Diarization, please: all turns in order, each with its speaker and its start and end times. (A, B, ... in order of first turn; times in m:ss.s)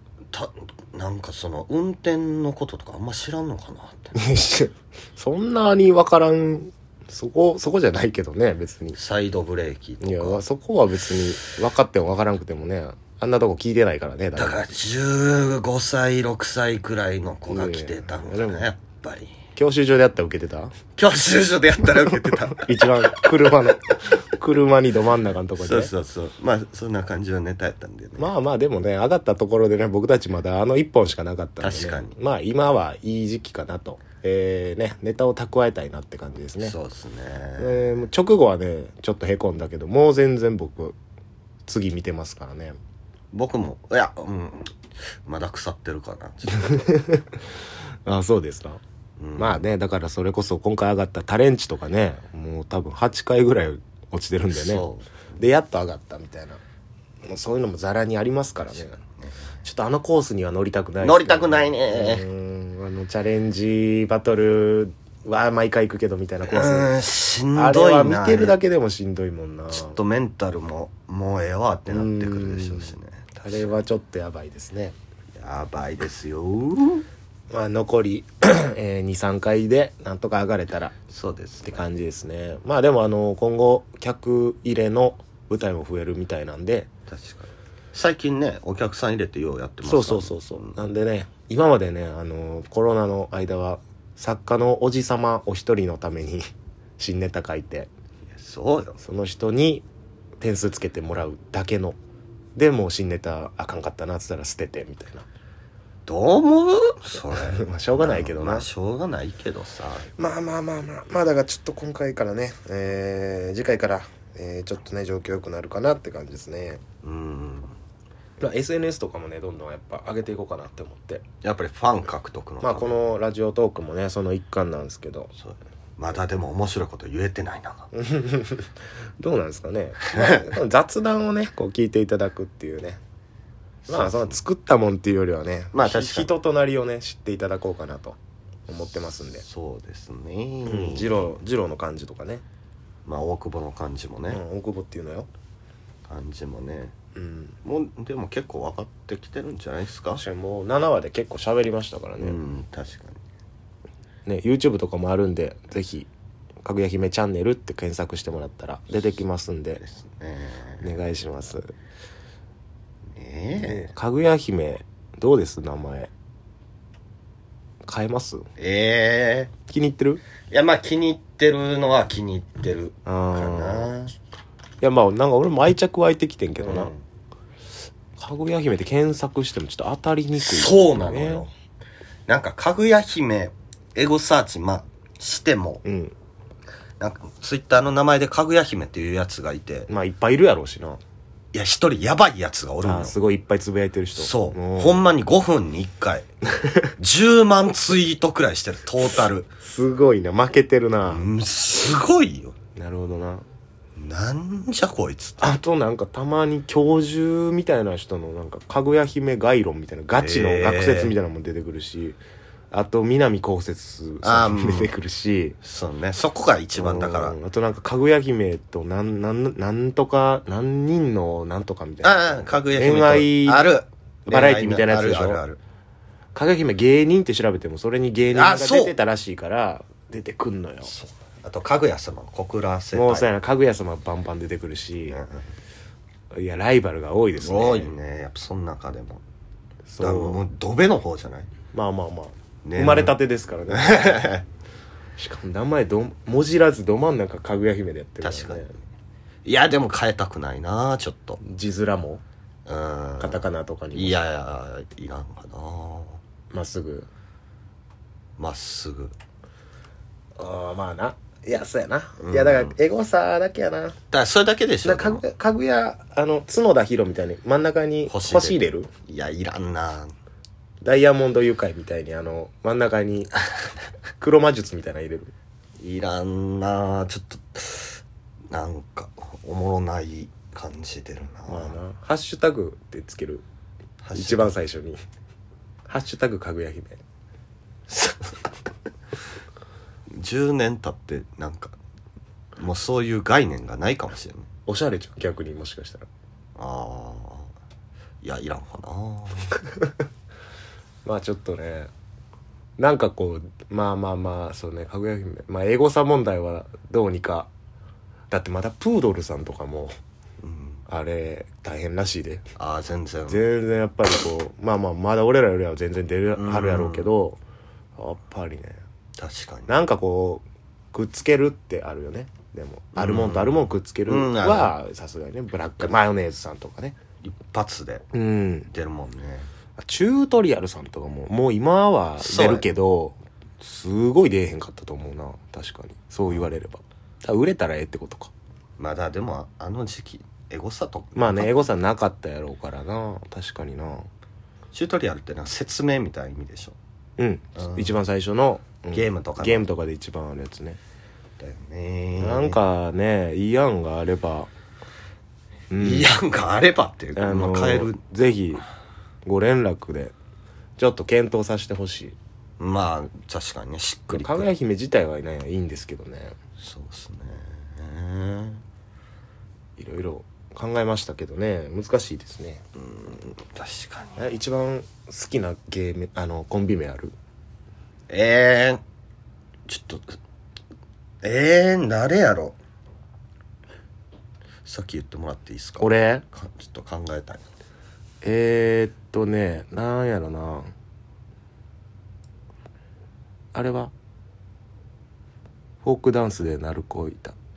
0:00.3-0:04.2 A
0:04.2-0:09.0 B
0:08.9-0:10.4 A
0:10.0-0:14.6 B
0:14.4-0:19.4 A
0:17.5-0:18.7 B
0:19.6-0:20.7 B
0:21.0-0:23.6 A
0:22.6-0:25.9 B
0:25.6-0:28.3 A
0:28.2-0:36.8 B
0:31.6-0:32.2 A
0:36.6-0:38.0 A
0:37.6-0:41.0 B
0:41.7-0:42.8 B
0:43.3-0:46.9 A
0:46.6-0:47.4 B
0:48.1-0:48.8 B
0:49.2-0:49.7 A
0:49.4-0:56.6 B
0:54.5-0:55.3 A
0:57.3-0:59.0 B
0:59.6-1:06.9 B
1:01.0-1:02.3 A
1:06.4-1:08.6 A
1:07.5-1:10.0 B
1:09.7-1:13.7 A
1:11.9-1:12.9 B
1:13.4-1:15.0 B
1:15.4-1:17.0 A
1:17.5-1:21.0 B
1:21.1-1:21.8 A
1:21.6-1:26.9 B
1:27.1-1:30.8 A
1:29.8-1:37.9 B
1:38.3-1:39.0 A
1:39.0-1:39.8 B
1:40.4-1:42.0 B
1:42.6-1:45.3 B
1:46.1-1:50.1 A
1:47.3-1:48.7 B
1:50.2-1:56.8 B
1:57.0-1:57.8 A
1:58.4-2:01.2 B
2:01.4-2:03.0 A
2:02.6-2:05.3 B
2:05.4-2:07.9 A
2:07.9-2:13.0 B
2:13.8-2:14.4 A
2:13.9-2:19.4 B
2:15.7-2:16.3 A
2:19.4-2:21.3 A
2:20.6-2:22.4 B
2:23.1-2:24.4 A
2:24.3-2:25.3 B
2:26.1-2:27.0 A
2:27.2-2:27.6 B
2:27.6-2:30.2 A
2:30.2-2:32.4 B
2:32.2-2:33.2 A
2:34.3-2:36.1 B
2:36.6-2:39.8 B
2:39.8-2:40.9 A
2:40.8-2:41.7 B
2:43.2-2:43.9 A
2:43.6-2:46.1 B
2:47.8-2:48.5 B
2:48.6-2:49.5 A
2:49.7-2:50.2 B
2:50.5-2:54.1 A
2:53.1-2:53.9 B
2:54.8-2:56.9 B
2:56.6-2:57.0 A
2:58.2-3:01.5 B
3:00.4-3:01.5 A
3:02.3-3:05.8 A
3:05.8-3:06.2 B
3:07.0-3:09.9 A
3:09.9-3:11.0 B
3:11.5-3:13.2 A
3:12.8-3:15.0 B
3:14.2-3:16.3 A
3:17.0-3:19.5 A
3:19.6-3:21.3 B
3:21.0-3:22.6 A
3:22.8-3:23.4 B
3:24.0-3:25.6 A
3:25.4-3:32.2 B
3:30.2-3:31.2 A
3:32.7-3:35.6 B
3:34.2-3:34.9 A
3:35.6-3:37.4 A
3:36.8-3:43.7 B
3:42.0-3:45.6 A
3:44.3-3:45.4 B
3:46.4-3:50.9 B
3:48.3-3:49.0 A
3:50.8-3:53.3 A
3:52.9-3:55.2 B
3:55.1-3:55.4 A
3:56.3-3:57.9 B
3:57.4-3:59.2 A
3:59.9-4:00.4 B
4:00.0-4:01.5 A
4:01.7-4:04.4 B
4:02.6-4:03.2 A
4:03.7-4:04.5 A
4:05.2-4:08.8 B
4:08.2-4:08.7 A
4:09.4-4:11.4 A
4:11.4-4:12.2 B
4:12.7-4:16.2 A
4:13.2-4:14.2 B
4:16.5-4:17.1 B
4:18.4-4:19.2 A
4:20.4-4:24.0 B
4:22.2-4:22.8 A
4:24.1-4:25.2 A
4:24.8-4:28.9 B
4:28.1-4:30.1 A
4:30.8-4:33.5 B
4:34.2-4:35.3 B
4:35.8-4:41.8 A
4:41.5-4:43.4 B
4:44.0-4:44.6 A
4:44.2-4:45.0 B
4:45.9-4:47.0 B
4:47.9-4:48.4 A
4:50.1-4:51.8 A
4:52.6-4:54.5 A
4:54.7-4:56.1 B
4:56.6-4:57.5 A
4:58.2-4:59.5 A
5:01.0-5:01.9 B
5:02.8-5:07.5 B
5:08.3-5:10.0 B
5:10.4-5:10.8 A
5:10.9-5:12.5 B
5:12.6-5:13.4 A
5:13.3-5:17.4 B
5:16.3-5:17.1 A
5:18.0-5:18.8 B
5:19.2-5:19.8 A
5:19.7-5:27.0 B
5:23.0-5:24.8 A
5:27.2-5:28.1 A
5:28.1-5:28.7 B
5:28.7-5:29.5 A
5:29.8-5:38.3 B
5:32.2-5:32.7 A
5:38.8-5:41.5 A
5:41.2-5:44.1 B
5:44.7-5:46.8 A
5:47.2-5:50.8 B
5:47.6-5:48.0 A
5:48.9-5:49.7 A
5:51.4-5:52.6 A
5:52.2-5:54.5 B
5:55.7-5:56.1 B
5:55.8-5:58.0 A
5:57.2-5:58.7 B
5:59.2-6:00.2 B
6:00.8-6:02.2 B
6:02.6-6:04.5 A
6:04.1-6:06.4 B
6:06.6-6:08.6 A
6:09.8-6:12.6 B
6:12.8-6:14.2 A
6:14.2-6:17.2 B
6:18.1-6:18.8 A
6:19.7-6:20.2 A
6:21.2-6:22.6 A
6:24.6-6:27.5 A
6:25.8-6:26.2 B
6:28.2-6:30.7 B
6:33.5-6:33.9 B
6:35.8-6:37.4 B